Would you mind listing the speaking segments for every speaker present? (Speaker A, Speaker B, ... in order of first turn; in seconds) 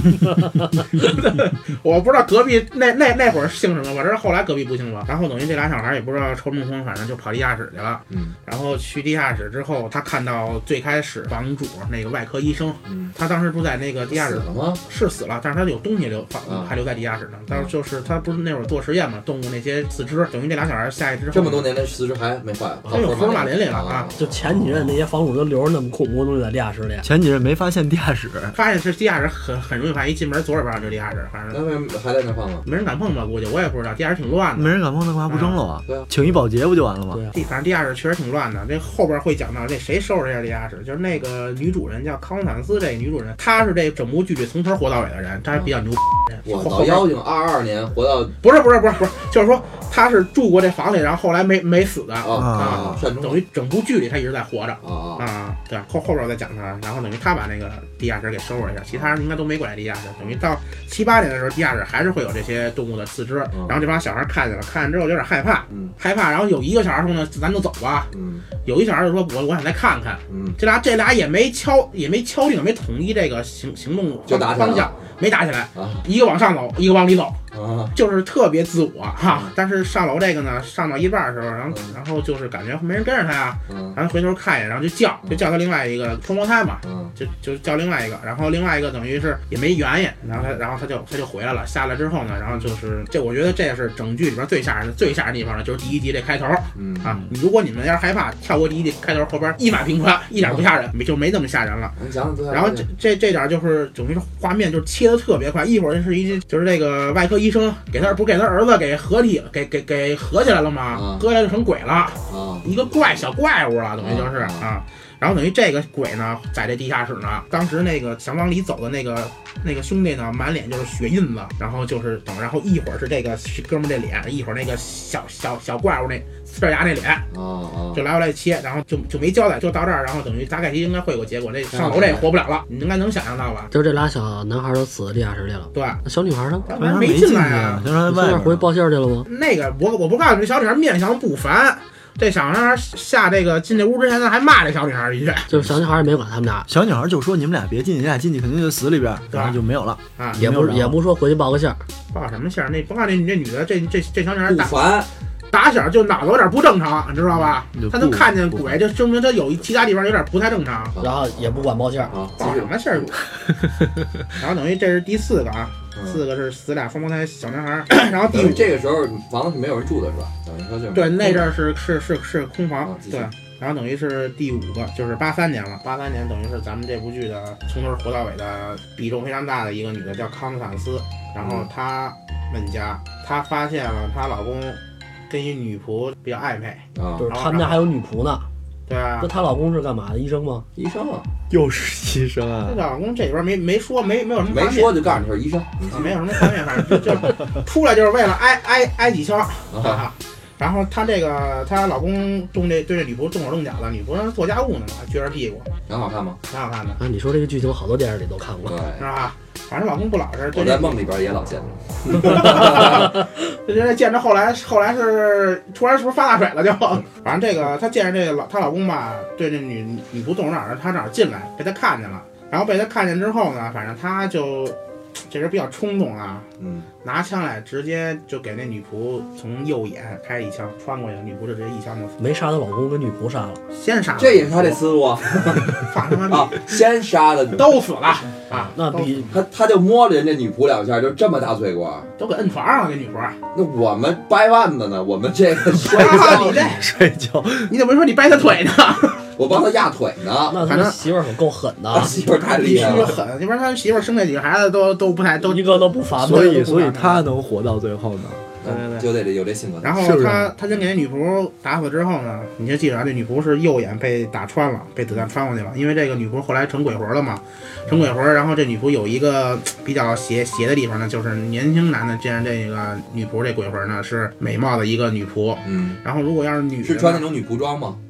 Speaker A: 1.0-21.7, 22.9-24.1, 28.5-31.6, 32.6-34.8, 35.3-35.6, 37.3-47.1, 48.4-77.4, 77.9-102.0, 102.5-127.3, 127.9-133.7, 135.7-136.0, 136.7-137.9, 139.3-145.5, 149.3-149.6, 152.1-154.9, 155.5-161.0, 162.4-163.2, 164.3-168.7, 170.9-187.8, 188.9-189.3, 192.7-195.3, 195.8-205.7, 206.5-207.0, 209.0-211.0, 212.1-224.8, 225.3-226.5, 227.0-232.2, 233.7-234.8, 235.6-236.6, 237.6-239.2, 242.2-243.4, 245.8-246.9, 247.7-249.3, 250.6-251.0, 252.4-257.2, 258.6-259.1, 259.8-277.3
Speaker B: 12.9-13.2, 14.1-14.8, 16.5-16.7, 21.3-24.6, 31.5-32.7, 46.5-48.4, 52.2-53.4, 54.8-55.2, 63.5-63.8, 68.1-68.5, 70.3-70.6, 74.3-75.0, 75.8-76.0, 77.5-77.9, 79.3-79.5, 83.7-84.0, 86.8-87.1, 96.8-97.2, 102.0-102.9, 110.9-111.2, 112.3-112.7, 114.0-114.7, 127.3-128.0, 131.7-132.2, 154.5-155.1, 160.9-161.5, 162.1-163.1, 166.0-166.2, 168.3-171.5, 172.8-173.3, 181.4-181.7, 186.9-187.3, 190.8-191.3, 194.5-196.2, 199.7-200.1, 205.9-206.4, 208.7-209.1, 210.5-213.2, 226.6-226.9, 234.2-237.6, 239.3-242.1, 243.5-246.7, 249.4-250.7, 251.9-253.2, 258.6-260.0, 275.6-276.0, 276.8-278.0
Speaker C: 22.9-23.1, 24.2-27.1, 133.7-136.7, 138.1-139.3, 145.5-146.7, 150.4-151.8, 161.0-162.2, 187.2-188.5, 189.2-190.7, 207.0-208.8, 232.2-233.6, 238.7-239.3, 250.5-252.2, 255.4-256.9
Speaker D: 27.0-28.6, 34.6-37.2, 52.4-52.9, 136.8-138.7, 146.7-151.0, 157.8-158.7, 191.5-192.8, 245.8-247.7, 256.2-258.5, 260.0-260.5